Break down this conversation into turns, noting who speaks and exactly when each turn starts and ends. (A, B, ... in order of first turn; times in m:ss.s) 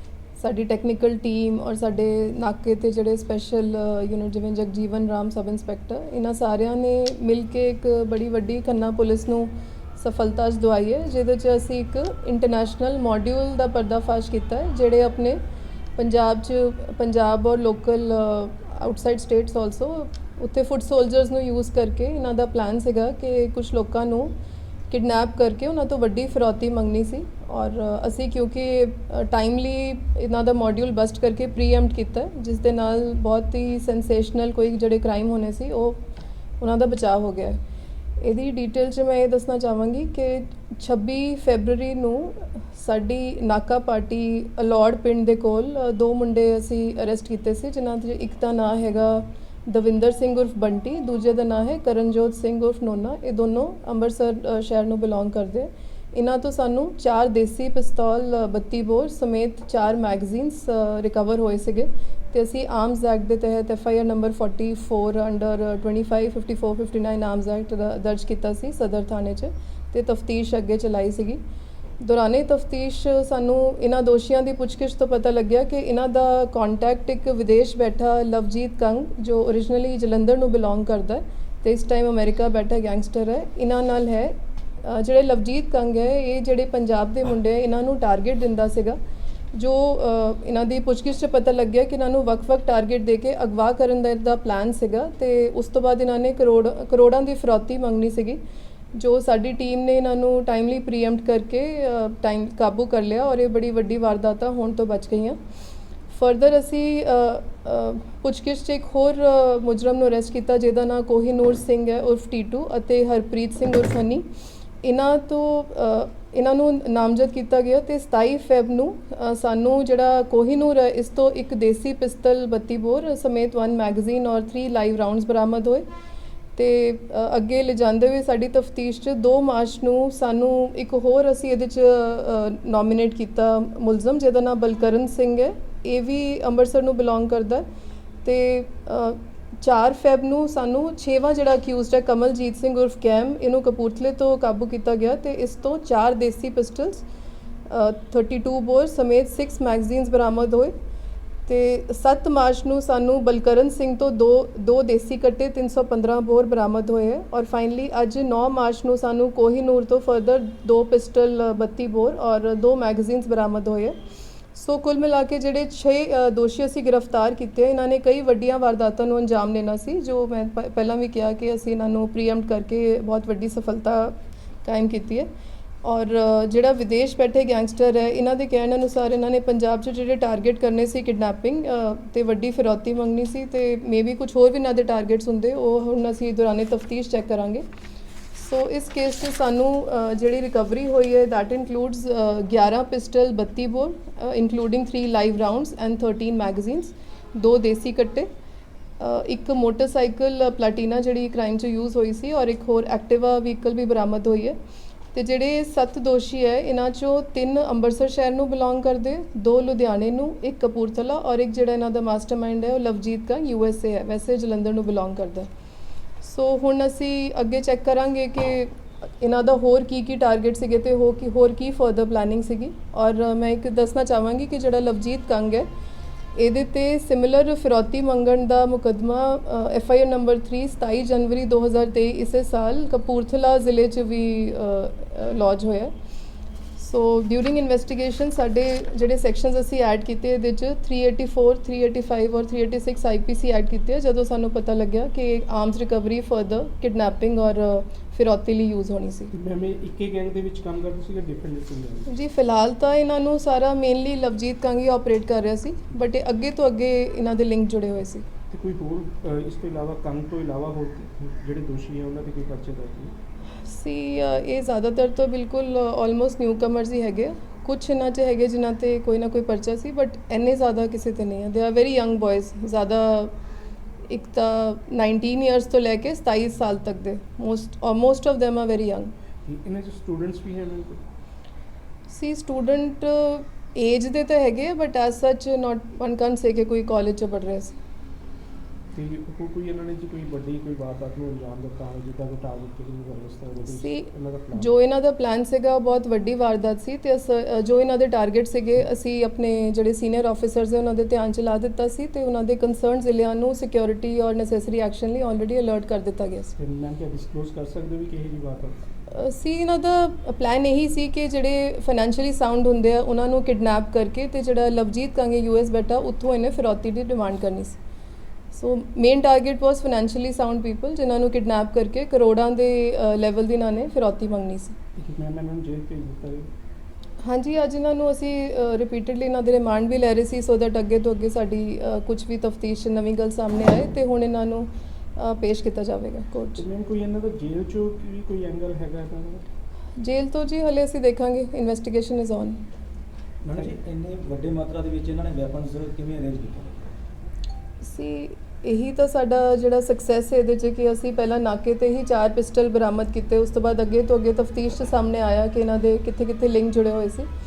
0:00.4-0:15.4 A
0:16.0-0:24.3 A
0:24.9-0:36.0 A
0:36.6-0:37.6 A
0:38.2-1:11.4 A
1:12.0-1:29.0 A
1:29.6-1:38.4 A
1:38.9-1:45.4 A
1:46.1-1:54.3 A
1:54.8-2:05.9 A
2:06.6-2:17.6 A
2:18.2-2:27.0 A
2:27.7-2:30.7 A
2:31.5-2:44.0 A
2:44.5-2:55.3 A
2:55.8-3:07.6 A
3:08.3-3:18.3 A
3:19.0-3:24.6 A
3:25.1-3:35.5 A
3:36.2-3:45.7 A
3:46.4-3:55.9 A
3:56.8-4:09.3 A
4:09.3-4:12.1 B
4:12.1-4:18.2 A
4:18.5-4:23.1 B
4:23.6-4:33.3 A
4:34.1-4:39.1 A
4:39.4-4:41.0 B
4:42.1-4:47.8 A
4:48.9-4:54.7 B
4:53.7-5:06.5 A
5:06.6-5:08.8 B
5:09.1-5:17.8 A
5:18.5-5:24.8 A
5:25.0-5:26.5 B
5:27.2-5:36.6 A
5:36.6-5:39.5 B
5:40.0-5:42.6 A
5:43.4-5:46.9 C
5:47.8-5:57.3 A